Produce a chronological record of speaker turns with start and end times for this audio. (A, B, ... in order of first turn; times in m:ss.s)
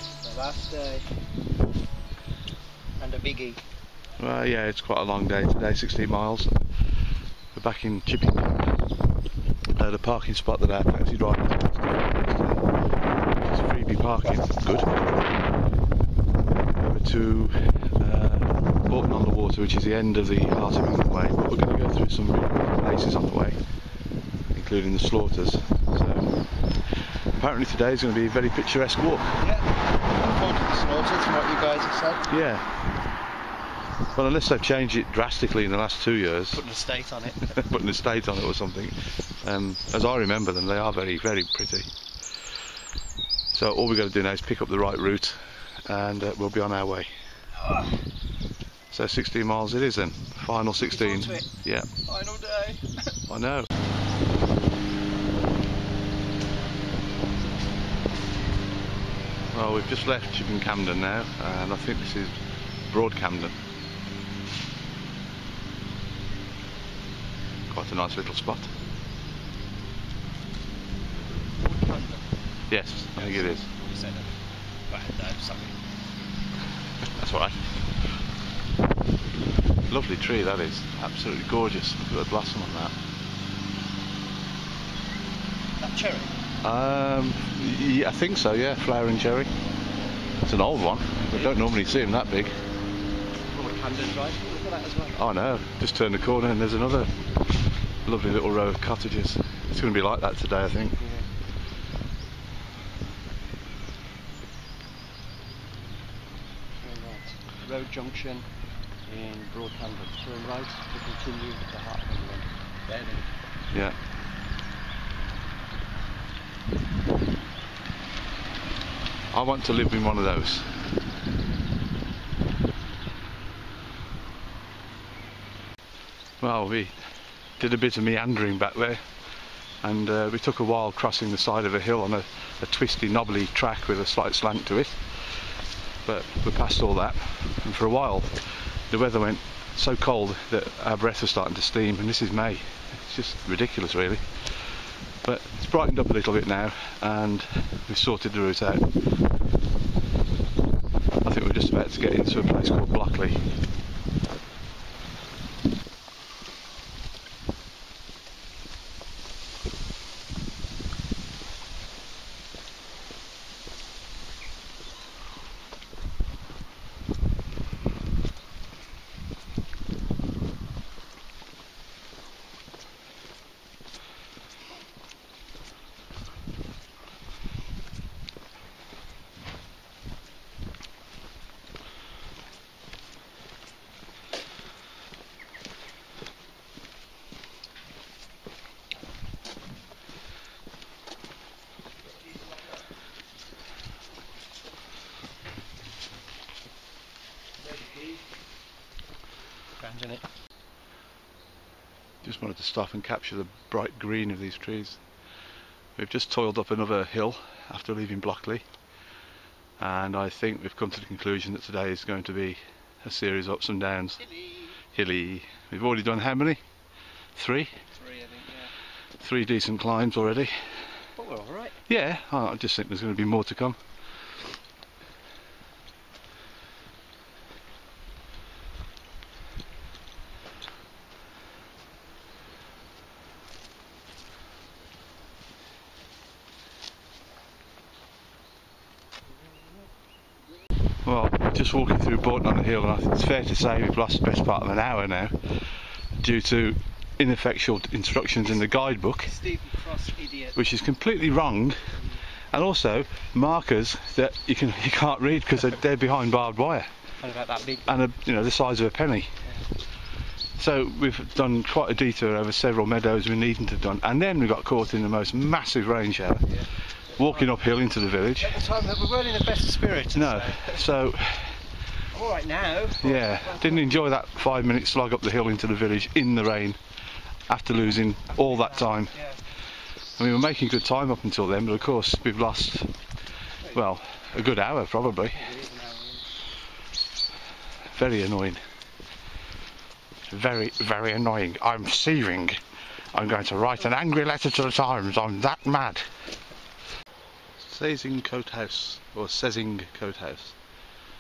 0:00.2-0:01.1 A
0:03.0-0:03.6 A
0:04.2-0:06.6 B
0:07.5-0:08.8 B
0:09.8-0:12.7 B
0:13.3-0:15.0 B
0:16.8-0:23.6 B
0:24.5-0:29.4 B
0:29.4-0:32.4 A
0:32.3-0:32.7 B
0:34.2-0:36.6 B
0:36.5-0:37.5 A
0:37.5-0:41.9 B
0:43.5-0:47.1 B
0:47.6-0:47.9 A
0:48.9-0:51.9 B
0:50.8-0:51.5 A
0:52.0-0:53.2 A
0:53.3-0:53.7 B
0:59.5-1:02.4 B
1:02.9-1:03.6 B
1:07.7-1:08.7 B
1:11.5-1:12.5 A
1:12.7-1:13.7 B
1:13.2-1:15.8 A
1:17.0-1:17.7 B
1:19.9-1:22.9 B
1:25.8-1:26.4 A
1:26.6-1:29.5 B
1:30.4-1:32.6 B
1:33.5-1:35.2 A
1:35.2-1:37.1 B
1:38.0-1:41.0 B
1:40.8-1:41.3 A
1:46.8-1:48.5 A
1:49.0-1:53.3 A
1:59.3-2:00.7 B
2:06.4-2:07.0 B
2:07.6-2:09.0 B
2:09.8-2:15.5 B
2:16.0-2:29.0 B
2:31.2-2:33.4 B
3:19.8-3:20.2 A
3:22.2-3:25.0 B
3:26.0-3:28.6 B
3:29.8-3:34.2 B
3:34.3-3:34.7 A
3:34.9-3:36.6 B
3:37.4-3:37.8 B
3:37.9-3:38.7 A
3:39.2-3:40.5 B
3:41.2-3:41.8 A
3:41.9-3:43.8 B
4:01.0-4:05.4 B
4:06.2-4:09.3 B
4:09.2-4:10.6 A
4:10.6-4:11.8 B
4:12.5-4:16.9 B
4:17.2-4:18.0 A
4:17.9-4:19.3 B
4:20.6-4:26.5 B
4:26.5-4:27.5 A
4:27.2-4:28.6 B
4:28.4-4:30.8 A
4:30.2-4:31.6 B
4:32.1-4:33.9 A
4:33.0-4:36.8 B
4:37.5-4:39.2 B
4:38.3-4:39.4 A
4:40.2-4:42.9 B
4:43.7-4:45.4 B
4:45.2-4:46.2 A
4:47.9-4:48.6 B
4:50.3-4:52.6 B
4:53.1-4:56.1 B
4:57.6-5:00.6 B